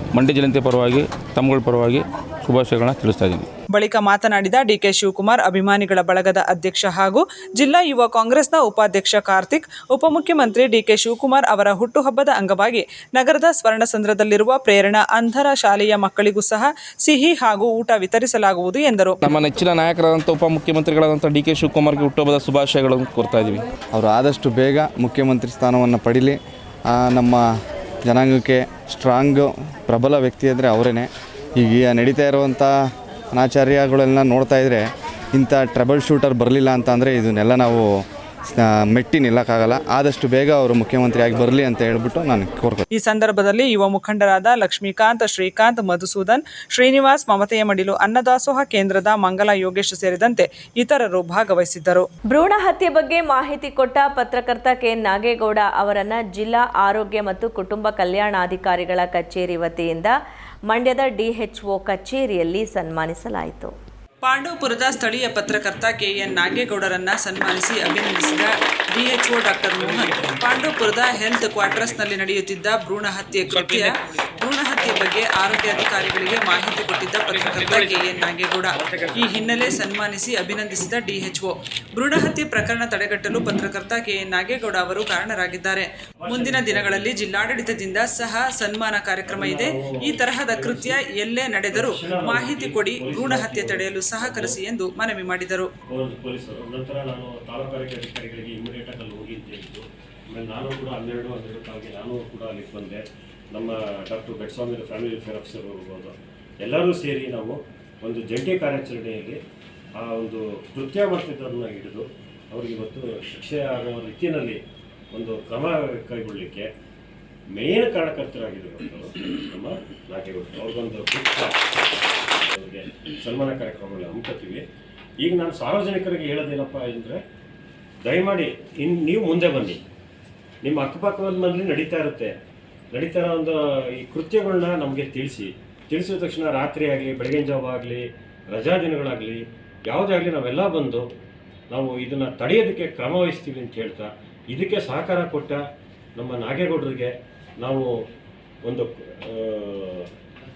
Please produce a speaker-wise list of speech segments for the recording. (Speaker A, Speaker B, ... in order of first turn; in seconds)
Speaker A: 0.2-3.4, 19.2-23.6
Speaker B: 3.7-19.2, 42.9-52.1, 64.2-95.7
Speaker C: 23.9-26.4, 26.9-27.4, 28.1-31.1, 31.6-32.7, 33.3-37.9, 38.6-42.8
Speaker D: 52.3-60.1, 60.7-63.7
Speaker E: 86.2-87.2, 89.3-91.0, 91.7-94.6, 95.9-109.4, 110.0-114.6, 115.1-116.7, 117.5-121.6, 122.5-124.6, 125.2-127.2, 128.0-129.8, 130.6-132.3, 132.9-141.1, 141.7-145.6, 146.2-147.9, 148.7-150.1